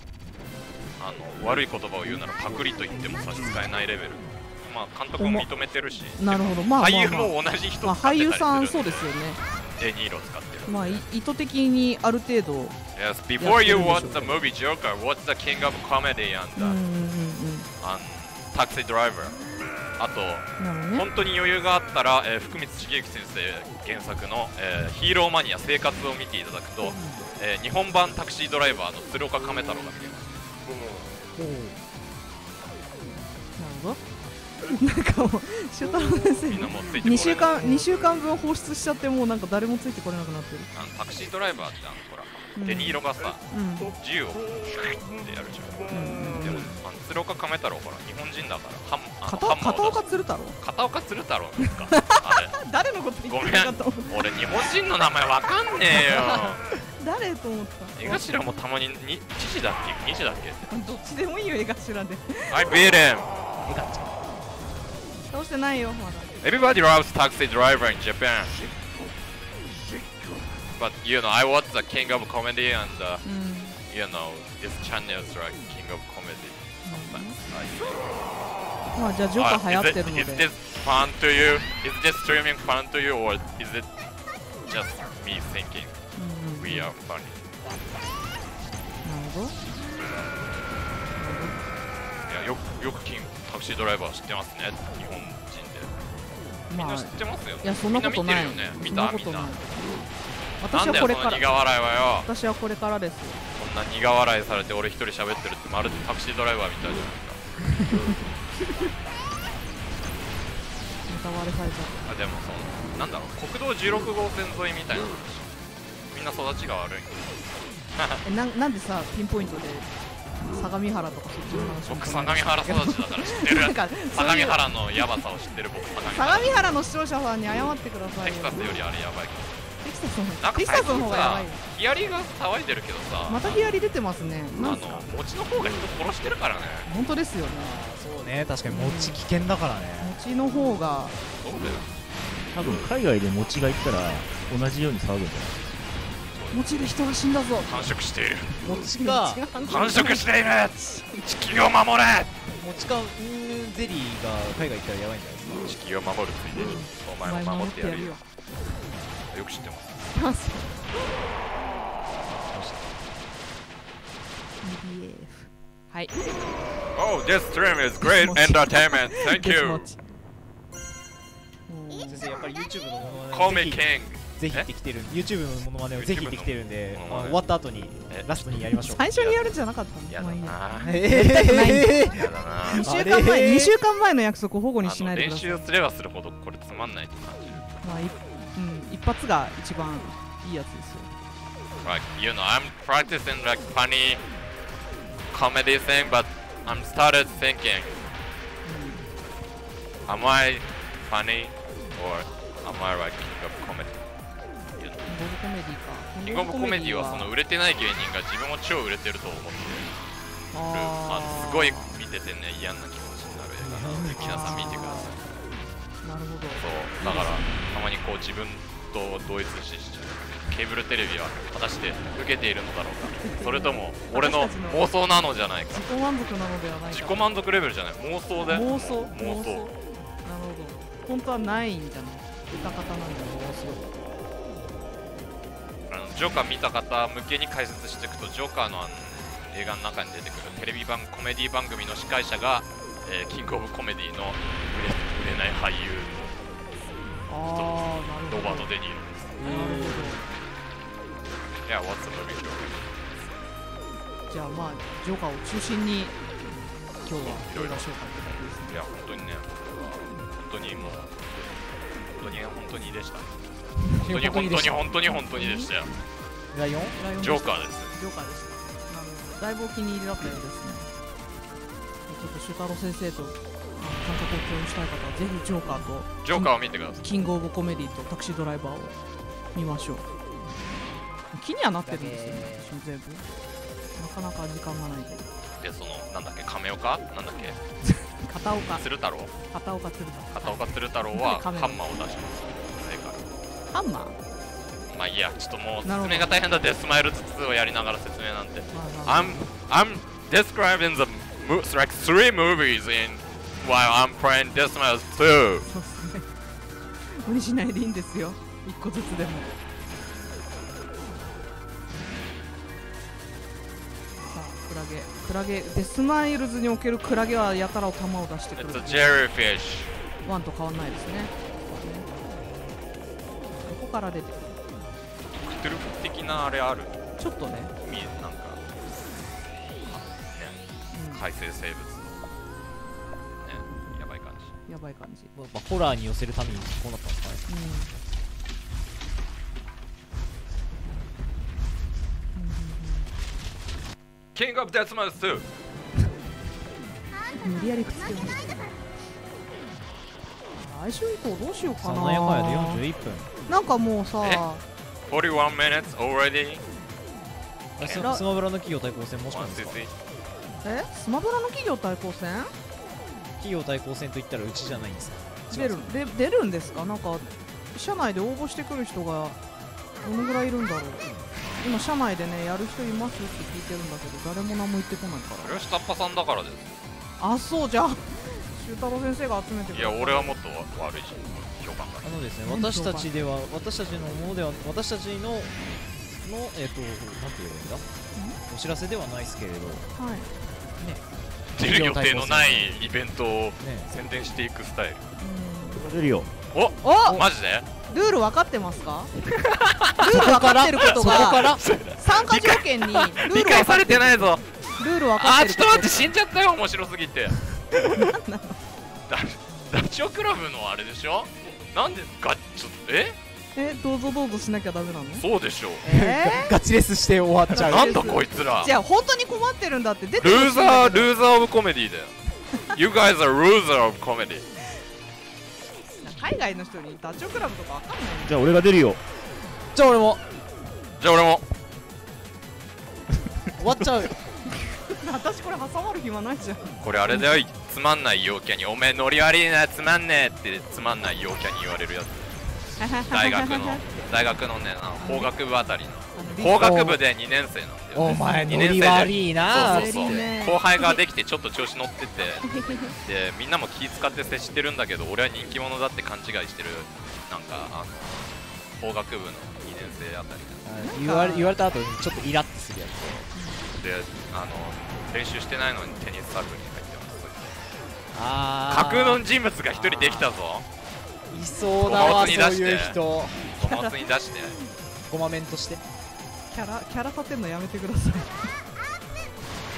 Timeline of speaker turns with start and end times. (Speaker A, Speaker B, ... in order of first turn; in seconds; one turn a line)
Speaker A: 1.0-9.1
Speaker B: 5.2-5.5
Speaker B: 6.2-9.4
Speaker A: 9.8-11.0
Speaker B: 10.7-12.8
Speaker A: 12.9-16.8
Speaker B: 13.4-14.4
Speaker B: 16.6-17.7
Speaker A: 17.8-19.4
Speaker A: 20.0-30.3
Speaker B: 20.6-21.1
Speaker B: 26.8-27.2
Speaker C: 31.4-31.7
Speaker B: 33.6-34.0
Speaker B: 34.7-40.7
Speaker A: 36.5-37.7
Speaker A: 40.7-50.0
Speaker B: 42.6-43.9
Speaker B: 45.9-46.8
Speaker B: 49.3-50.6
Speaker A: 50.6-52.6
Speaker B: 51.9-54.3
Speaker A: 53.3-56.6
Speaker B: 55.9-58.5
Speaker A: 58.0-60.7
Speaker B: 60.7-62.8
Speaker A: 62.5-63.4
Speaker C: 63.7-64.1
Speaker B: 65.3-66.3
Speaker A: 66.4-68.6
Speaker A: 70.8-73.2
Speaker B: 73.2-73.8
Speaker A: 73.8-78.3
Speaker B: 76.8-77.4
Speaker B: 78.9-80.5
Speaker A: 79.3-83.9
Speaker A: 84.7-86.0
Speaker B: 86.2-86.9
Speaker A: 86.6-87.4
Speaker B: 89.0-89.6
Speaker A: 90.0-90.3
Speaker B: 91.2-91.6
Speaker A: 92.3-95.9
Speaker B: 96.7-99.7
Speaker A: 96.8-99.6
Speaker B: 100.6-101.5
Speaker A: 100.7-102.3
Speaker B: 102.2-103.4
Speaker A: 103.6-107.4
Speaker B: 107.8-108.2
Speaker B: 111.1-112.0
Speaker A: 112.0-115.5
Speaker A: 116.1-117.4
Speaker A: 117.9-118.2
Speaker B: 118.2-119.9
Speaker B: 120.5-125.2
Speaker A: 121.9-126.8
Speaker B: 126.1-128.6
Speaker A: 128.2-129.6
Speaker B: 129.8-131.6
Speaker A: 130.4-133.6
Speaker B: 133.3-135.1
Speaker A: 134.6-136.9
Speaker B: 136.8-137.8
Speaker C: 137.5-140.1
Speaker B: 138.7-139.2
Speaker B: 140.0-141.2
Speaker A: 141.4-141.9
Speaker D: 142.5-145.7
Speaker A: 146.3-146.6
Speaker B: 146.5-147.9
Speaker A: 147.7-148.6
Speaker C: 148.6-149.5
Speaker B: 148.7-150.3
Speaker A: 149.7-152.4
Speaker C: 152.5-155.7
Speaker A: 155.6-158.2
Speaker B: 156.6-158.2
Speaker A: 159.3-160.0
Speaker B: 160.1-161.2
Speaker C: 162.3-163.0
Speaker B: 164.6-166.2
Speaker A: 166.9-169.9
Speaker B: 168.0-170.0
Speaker B: 171.7-172.3
Speaker C: 172.1-179.1
Speaker A: 173.3-174.7
Speaker A: 175.9-177.4
Speaker A: 178.1-178.3
Speaker B: 178.7-185.7
Speaker A: 179.0-179.4
Speaker A: 180.1-181.0
Speaker C: 180.8-183.8
Speaker A: 181.9-182.8
Speaker A: 184.8-187.7
Speaker B: 187.8-191.1
Speaker A: 191.8-194.2
Speaker A: 195.3-198.0
Speaker B: 198.6-199.0
Speaker A: 200.1-204.0
Speaker A: 204.7-205.1
Speaker B: 205.1-207.3
Speaker A: 206.2-209.9
Speaker B: 210.5-212.0
Speaker A: 210.7-215.2
Speaker C: 213.6-214.8
Speaker B: 214.2-215.2
Speaker B: 216.0-217.5
Speaker A: 216.6-225.9
Speaker B: 223.1-224.8
Speaker B: 225.7-227.3
Speaker A: 226.9-229.6
Speaker B: 228.5-233.9
Speaker A: 235.9-246.4
Speaker B: 247.3-248.7
Speaker A: 247.5-249.6
Speaker C: 249.4-250.2
Speaker B: 249.4-250.2
Speaker A: 251.7-253.3
Speaker B: 254.3-256.2
Speaker B: 257.0-258.8
Speaker A: 257.2-263.3
Speaker B: 263.8-265.7
Speaker A: 264.0-265.9
Speaker C: 264.1-264.7
Speaker C: 266.5-267.0
Speaker B: 267.0-270.9
Speaker A: 267.2-268.0
Speaker B: 272.1-279.0
Speaker A: 276.2-277.0
Speaker B: 279.6-280.0
Speaker B: 281.3-283.3
Speaker C: 281.9-282.8
Speaker B: 284.0-285.3
Speaker A: 285.6-287.6
Speaker B: 287.8-288.9
Speaker A: 288.7-289.4
Speaker B: 289.5-291.8
Speaker A: 290.4-293.2
Speaker B: 293.7-294.2
Speaker A: 294.9-305.7
Speaker B: 295.9-296.3
Speaker B: 298.7-299.5
Speaker B: 305.6-306.3
Speaker B: 307.2-309.5
Speaker B: 314.3-319.2
Speaker A: 318.6-319.9
Speaker B: 320.2-322.1
Speaker B: 323.6-324.6
Speaker A: 325.3-327.0
Speaker B: 327.2-327.7
Speaker A: 327.8-328.6
Speaker A: 329.9-330.6
Speaker B: 330.9-331.2
Speaker A: 331.1-332.1
Speaker A: 333.4-334.5
Speaker B: 334.7-335.3
Speaker C: 335.3-337.4
Speaker B: 337.5-337.9
Speaker B: 342.4-343.1
Speaker A: 344.4-345.5
Speaker B: 347.4-348.5
Speaker B: 350.5-352.8
Speaker C: 351.8-353.3
Speaker B: 353.5-354.6
Speaker A: 355.1-356.6
Speaker A: 357.8-358.1
Speaker C: 357.8-359.8
Speaker B: 358.0-358.2
Speaker A: 359.3-359.9
Speaker B: 360.6-362.5
Speaker C: 363.4-365.8
Speaker B: 365.5-369.4
Speaker B: 370.0-371.1
Speaker B: 371.6-375.7
Speaker A: 375.4-376.7
Speaker B: 377.2-380.4
Speaker A: 379.7-382.1
Speaker C: 382.0-385.6
Speaker B: 382.4-383.1
Speaker C: 386.2-387.9
Speaker C: 388.4-389.9
Speaker B: 390.0-390.3
Speaker C: 390.8-391.0
Speaker A: 391.6-395.1
Speaker C: 391.6-392.8
Speaker C: 393.6-393.9
Speaker B: 395.2-395.8
Speaker D: 395.7-396.3
Speaker A: 396.5-397.7
Speaker B: 396.8-397.2
Speaker B: 397.9-406.0
Speaker A: 399.5-400.2
Speaker C: 400.1-401.6
Speaker A: 400.8-404.4
Speaker A: 405.2-407.4
Speaker B: 407.8-408.6
Speaker A: 409.1-413.2
Speaker B: 413.6-415.2
Speaker A: 415.2-415.8
Speaker B: 415.8-416.5
Speaker C: 415.9-418.1
Speaker B: 417.5-421.1
Speaker A: 417.6-418.7
Speaker A: 420.2-422.1
Speaker A: 422.7-424.5
Speaker B: 426.0-428.4
Speaker D: 428.2-429.1
Speaker C: 429.7-430.2
Speaker A: 431.0-431.4
Speaker C: 433.6-434.1
Speaker B: 434.9-437.4
Speaker A: 436.8-442.3
Speaker B: 442.8-444.1
Speaker A: 443.0-460.7
Speaker B: 445.0-445.3
Speaker B: 446.1-446.9
Speaker C: 446.6-447.0
Speaker C: 447.9-450.3
Speaker B: 448.1-448.4
Speaker B: 449.5-451.0
Speaker B: 452.4-453.0
Speaker C: 460.6-463.3
Speaker B: 460.8-461.5
Speaker B: 463.4-463.6
Speaker A: 463.7-467.6
Speaker C: 468.1-470.3
Speaker A: 468.7-470.7
Speaker C: 471.3-473.5
Speaker A: 471.8-473.0
Speaker A: 473.6-474.6
Speaker B: 473.6-474.0
Speaker C: 475.1-475.8
Speaker B: 476.5-478.5